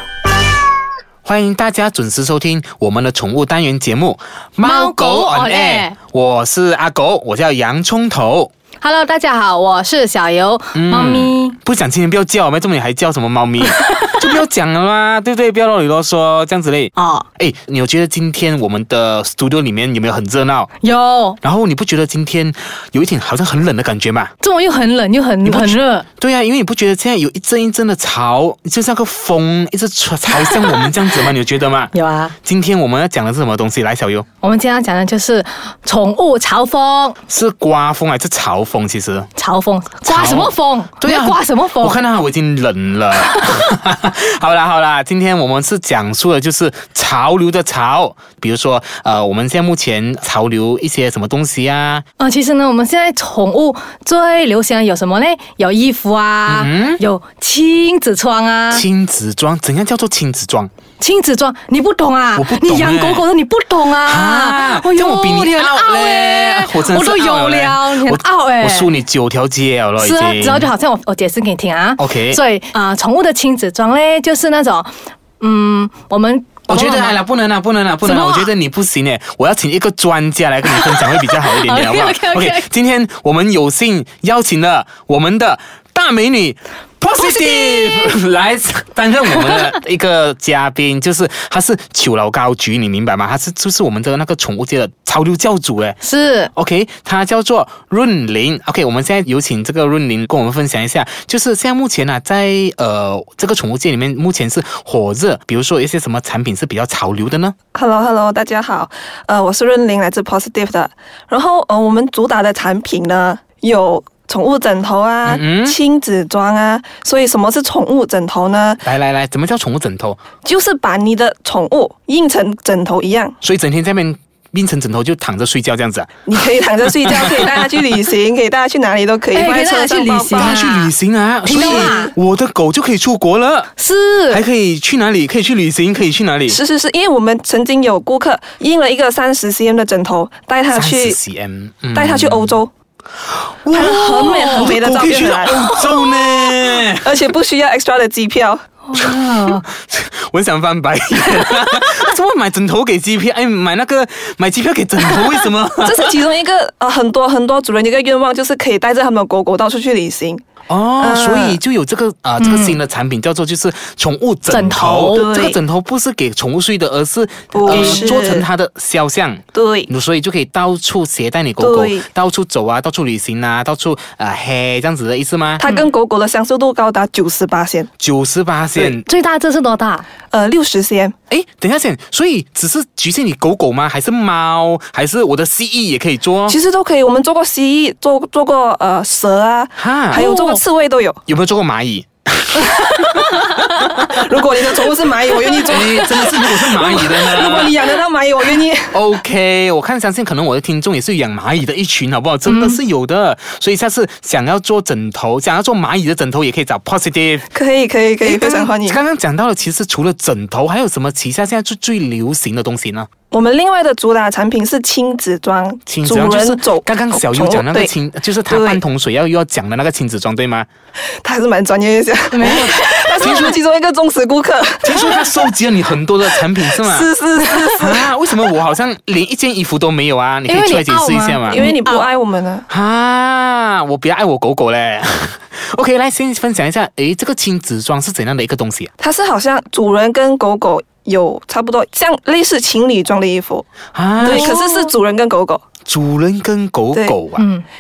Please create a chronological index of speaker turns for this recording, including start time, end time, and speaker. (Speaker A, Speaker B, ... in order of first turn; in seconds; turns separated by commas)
Speaker A: 1.2-8.5, Speaker B: 4.6-6.0, Speaker B: 8.8-11.6, Speaker A: 10.7-20.7, Speaker B: 13.7-14.4, Speaker B: 16.9-17.3, Speaker B: 20.8-21.4, Speaker A: 21.4-24.3, Speaker B: 24.4-26.1, Speaker A: 25.4-31.9, Speaker B: 30.4-30.9, Speaker B: 31.9-32.4, Speaker A: 32.4-34.3, Speaker B: 34.4-37.2, Speaker A: 37.3-39.3, Speaker B: 39.4-42.0, Speaker A: 40.0-52.0, Speaker B: 43.2-43.5, Speaker B: 52.2-58.9, Speaker A: 56.5-57.0, Speaker A: 58.7-60.7, Speaker B: 61.0-69.0, Speaker A: 62.3-63.3, Speaker A: 64.0-70.7, Speaker B: 70.0-77.2, Speaker A: 72.0-72.4, Speaker A: 76.7-96.0, Speaker B: 78.0-78.5, Speaker B: 80.7-82.7, Speaker B: 87.2-88.1, Speaker B: 96.0-96.5, Speaker A: 96.5-107.5, Speaker C: 107.7-118.8, Speaker A: 115.3-115.8, Speaker A: 118.8-120.2, Speaker C: 120.5-123.4, Speaker A: 123.4-126.2, Speaker C: 126.3-130.6, Speaker B: 129.3-132.1, Speaker A: 130.3-133.7, Speaker C: 131.6-132.0, Speaker B: 133.8-134.4, Speaker A: 134.3-136.6, Speaker C: 136.5-141.2, Speaker A: 140.7-142.6, Speaker C: 141.9-142.7, Speaker A: 143.6-147.1, Speaker C: 143.7-145.7, Speaker B: 144.2-144.8, Speaker B: 145.6-145.9, Speaker C: 147.0-148.6, Speaker B: 148.8-149.7, Speaker A: 148.9-156.1, Speaker B: 155.0-155.4, Speaker C: 155.8-160.4, Speaker A: 160.7-175.6, Speaker C: 161.0-161.6, Speaker B: 162.4-162.8, Speaker B: 164.5-165.3, Speaker C: 165.2-165.6, Speaker C: 167.5-168.5, Speaker C: 169.5-169.9, Speaker C: 171.6-172.1, Speaker C: 175.6-177.9, Speaker A: 178.0-179.1, Speaker B: 179.0-180.1, Speaker C: 180.3-181.2, Speaker A: 181.3-186.6, Speaker C: 186.5-191.2, Speaker A: 189.8-190.3, Speaker B: 190.3-190.6, Speaker A: 191.3-194.2, Speaker C: 193.0-199.0, Speaker A: 195.6-197.8, Speaker A: 198.9-207.5, Speaker B: 202.4-202.8, Speaker C: 207.5-209.0, Speaker A: 208.2-213.1, Speaker C: 213.3-217.9, Speaker A: 215.9-220.7, Speaker C: 218.5-218.8, Speaker C: 221.2-225.5, Speaker B: 222.3-223.5, Speaker A: 222.4-223.6, Speaker A: 224.8-227.1, Speaker C: 226.3-228.1, Speaker A: 227.8-231.6, Speaker B: 230.5-232.1, Speaker C: 231.5-232.7, Speaker A: 232.7-238.9, Speaker C: 239.0-243.7, Speaker A: 243.9-244.5, Speaker C: 244.2-245.6, Speaker B: 244.2-244.9, Speaker A: 245.9-247.5, Speaker B: 247.3-247.7